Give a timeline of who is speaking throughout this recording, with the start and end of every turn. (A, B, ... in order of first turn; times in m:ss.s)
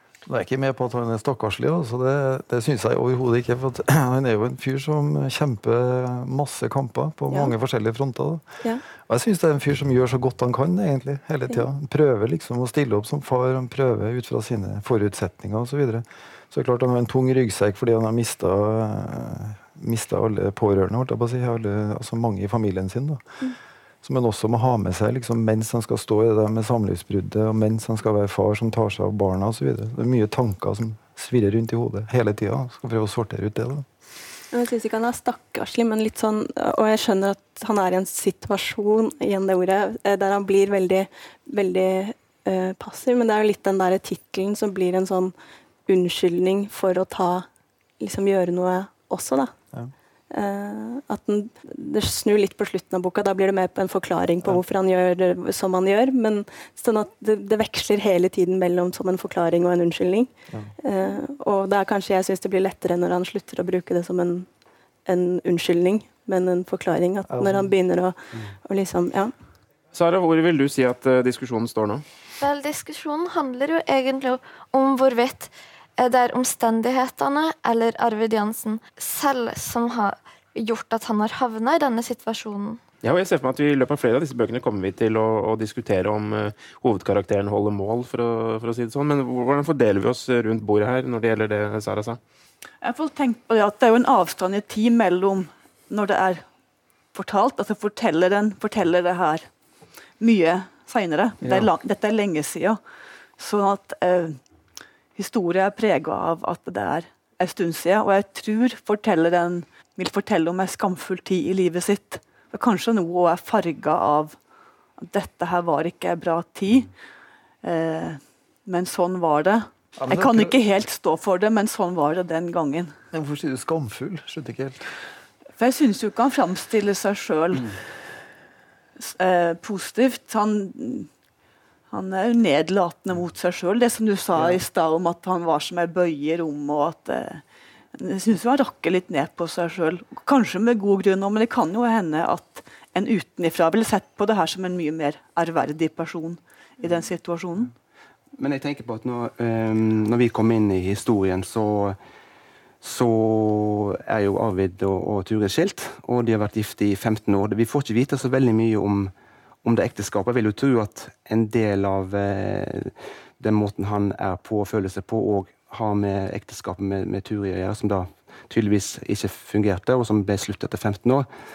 0:00.3-0:23.3 A
0:24.0-0:33.8 A
0:34.5-0:45.3 B
0:45.9-0:47.5 B
0:48.0-0:49.5 B
0:50.3-1:04.5 B
1:05.0-1:09.3 B
1:07.3-1:07.7 A
1:09.9-1:12.0 C
1:12.4-1:22.8 D
1:23.0-1:32.2 C
1:32.8-1:36.4 E
1:37.1-1:39.5 E
1:40.2-1:42.8 E
1:41.4-1:41.7 C
1:43.4-1:44.4 E
1:45.1-1:54.4 E
1:55.0-1:56.9 E
1:57.6-2:02.9 E
2:00.0-2:00.5 A
2:03.1-2:04.9 A
2:05.6-2:07.7 E
2:09.0-2:11.1 E
2:11.9-2:27.7 E
2:28.4-2:32.0 F
2:32.8-2:39.1 F
2:39.6-2:51.3 F